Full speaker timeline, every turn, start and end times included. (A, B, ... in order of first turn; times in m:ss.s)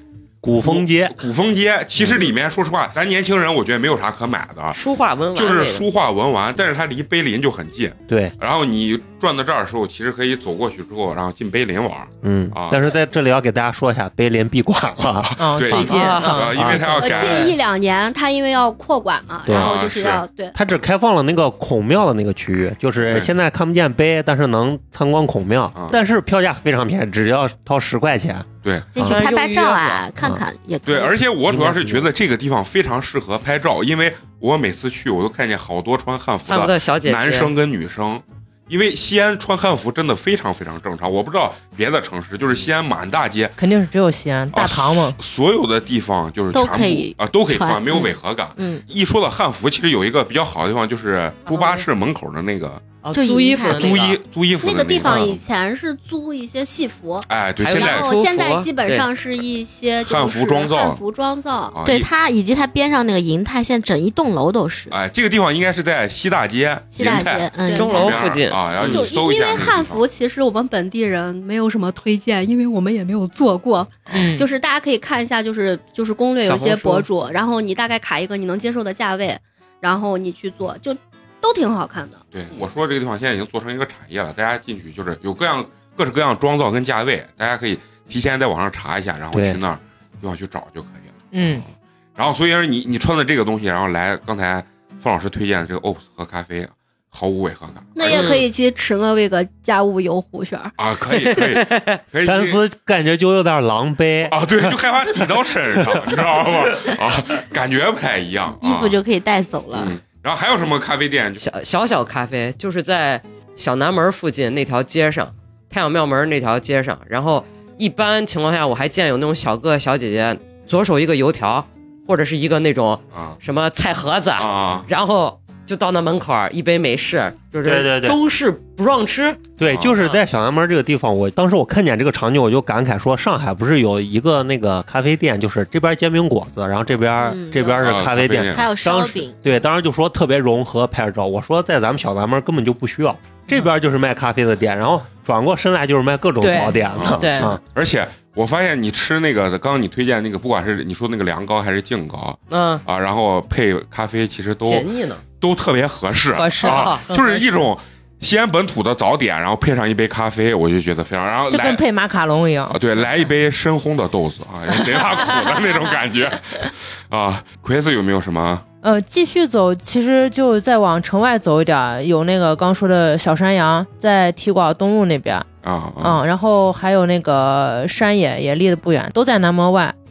0:00.4-0:01.2 A
0:00.6-0:04.8 B
0:02.0-0:02.3 A
0:04.7-0:05.9 C
0:05.3-0:13.0 B
0:08.1-0:08.3 A
0:12.2-0:17.1 A
0:15.2-0:17.5 B
0:15.4-0:16.8 D
0:15.9-0:16.5 C
0:16.9-0:20.6 E
0:17.2-0:17.5 C
0:19.4-0:19.7 A
0:19.5-0:20.2 B
0:20.5-0:29.2 A
0:23.0-0:23.3 B
0:25.7-0:26.0 B
0:28.6-0:28.9 B
0:28.9-0:31.2 F
0:29.0-0:30.0 C
0:30.8-0:43.6 B
0:31.5-0:32.1 A
0:36.5-0:37.5 C
0:43.6-0:45.2 D
0:44.5-0:52.8 B
0:46.5-0:48.8 F
0:51.5-0:51.9 C
0:53.0-0:54.2 C
0:53.1-0:54.0 F
0:53.7-0:55.4 B
0:54.6-1:01.8 E
0:57.3-0:58.1 B
0:57.6-0:59.1 C
1:00.0-1:01.0 B
1:01.7-1:02.1 B
1:01.8-1:04.9 F
1:04.9-1:10.0 B
1:06.9-1:08.2 F
1:07.6-1:08.2 E
1:07.7-1:09.0 C
1:08.8-1:22.2 E
1:14.1-1:14.3 B
1:14.1-1:14.5 D
1:16.4-1:17.1 C
1:22.3-1:38.4 B
1:29.3-1:29.6 A
1:31.3-1:31.6 D
1:37.9-1:40.7 E
1:38.0-1:38.4 C
1:40.8-1:42.6 B
1:41.2-1:42.0 C
1:42.2-1:44.8 A
1:44.3-1:49.0 B
1:45.8-1:46.7 A
1:48.6-1:50.0 F
1:49.7-1:51.4 B
1:51.4-2:10.2 C
2:03.1-2:03.4 B
2:04.4-2:04.9 B
2:07.6-2:08.2 A
2:09.6-2:27.6 A
2:09.7-2:10.0 B
2:17.2-2:18.0 F
2:17.8-2:18.6 B
2:18.5-2:19.4 F
2:26.4-2:27.5 D
2:26.8-2:41.8 B
2:27.2-2:27.5 C
2:32.5-2:32.8 C
2:34.6-2:35.2 C
2:36.3-2:37.6 D
2:36.6-2:37.0 C
2:41.5-2:42.8 D
2:42.7-2:48.6 B
2:48.8-2:55.5 D
2:55.6-2:56.2 B
2:56.0-2:59.9 D